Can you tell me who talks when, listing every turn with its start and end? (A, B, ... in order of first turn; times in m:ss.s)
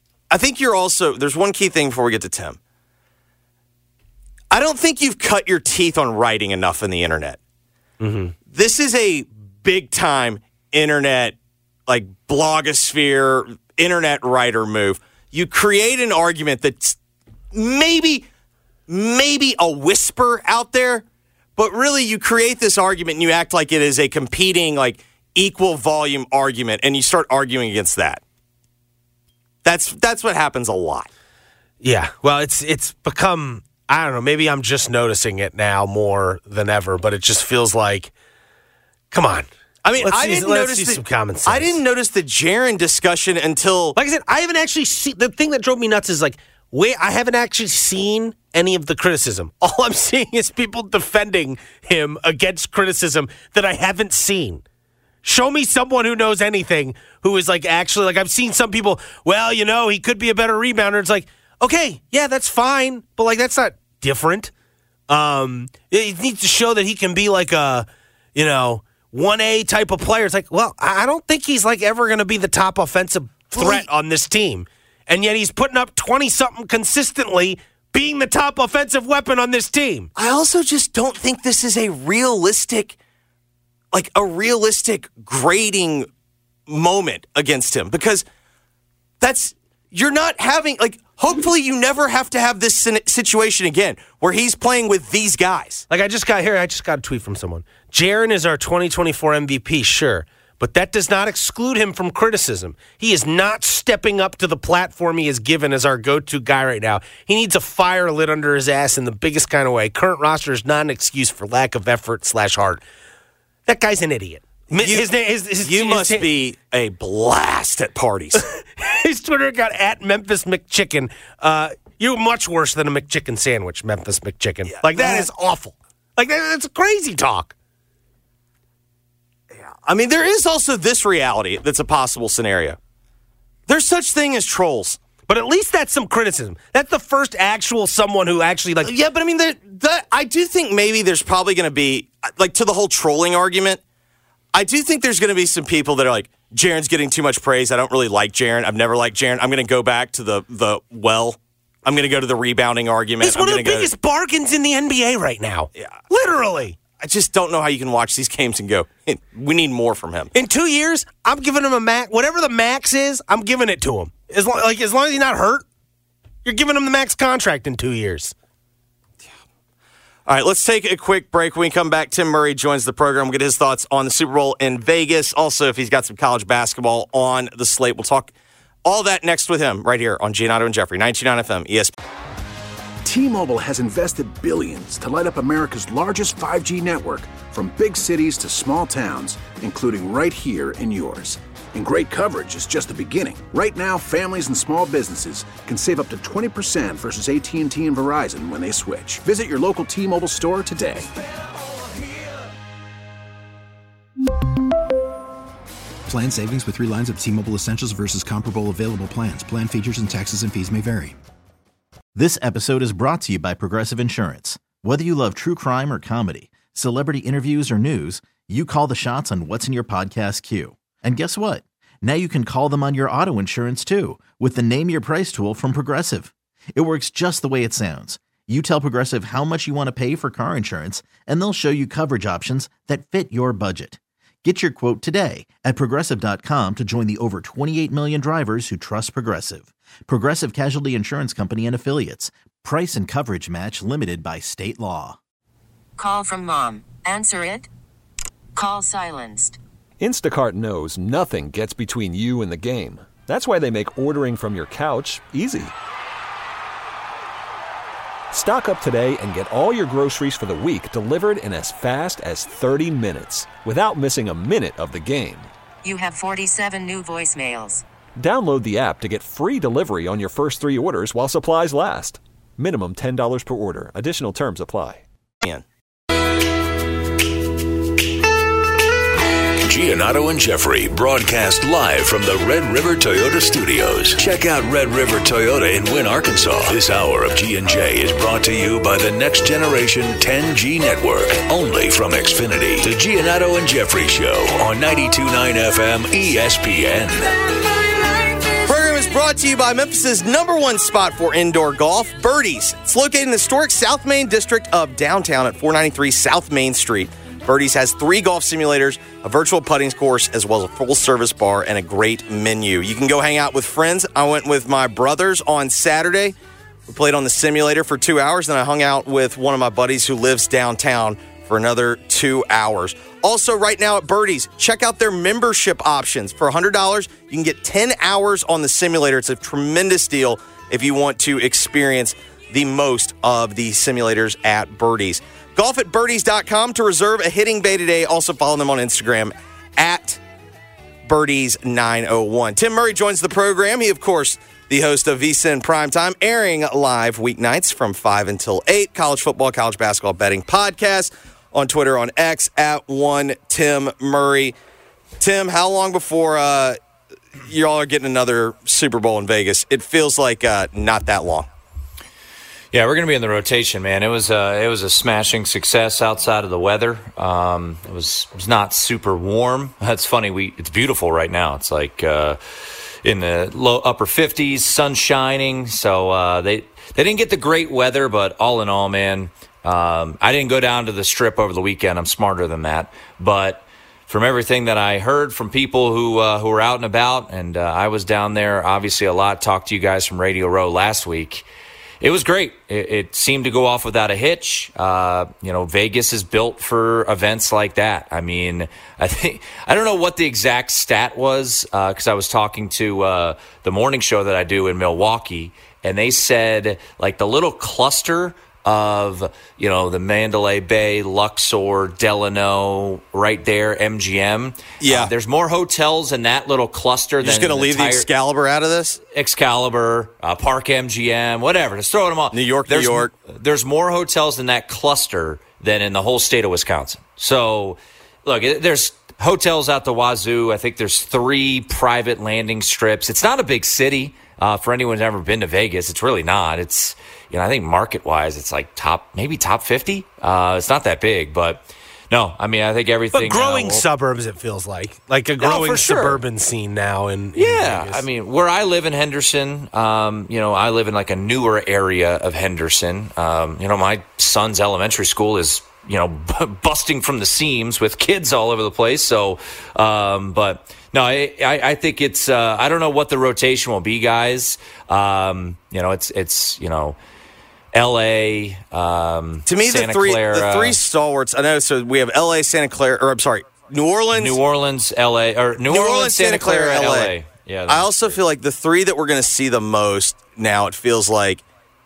0:00.3-0:02.6 A
0:04.5-0:07.4 A
0:08.0-0:08.3 B
0:08.5-0:11.3 A
0:11.9-0:17.0 A
0:17.5-0:18.2 A
0:18.9-0:21.0 A
0:21.6-0:28.2 A
0:29.6-0:31.1 A
0:31.8-0:38.1 B
0:39.1-0:41.8 B
0:39.8-0:44.0 A
0:44.0-0:54.6 B
0:55.2-1:04.5 B
1:05.1-1:20.1 B
1:13.5-1:13.8 A
1:20.2-1:23.0 A
1:23.9-1:26.1 A
1:26.7-1:28.2 A
1:29.2-1:35.8 A
1:35.9-1:52.8 B
1:53.7-1:56.3 B
1:54.8-1:55.1 A
1:55.6-1:58.4 A
1:58.3-2:07.5 B
2:04.7-2:05.3 A
2:09.6-2:12.8 A
2:13.7-2:15.0 A
2:15.3-2:18.9 B
2:18.8-2:23.8 A
2:24.5-2:33.9 A
2:33.2-2:36.8 B
2:37.0-2:40.3 A
2:40.3-2:45.6 B
2:46.4-2:48.3 B
2:50.2-2:58.3 A
2:58.8-3:01.9 A
3:03.0-3:21.1 C
3:26.1-3:31.2 D
3:32.1-4:05.2 E
4:06.0-4:07.7 F
4:08.5-4:09.6 F
4:10.0-4:15.7 G
4:18.3-4:25.5 G
4:25.8-4:27.8 F
4:28.2-4:35.0 G
4:39.6-4:57.5 H
4:58.6-5:16.4 A
5:16.9-5:40.2 A
5:41.0-5:54.5 A
5:55.2-5:56.8 A
5:57.4-6:01.5 A
6:02.7-6:12.4 I
6:13.0-6:31.4 I
6:32.0-6:58.1 I
6:54.8-6:55.1 A
6:57.2-6:59.0 A
6:59.0-7:23.9 I
7:02.3-7:03.1 A
7:23.1-7:28.0 B
7:25.4-7:26.2 I
7:27.3-7:47.0 I
7:47.7-7:50.8 I
7:49.5-7:54.4 A
7:54.1-7:58.2 I
7:55.7-7:57.2 A
7:57.7-8:01.4 A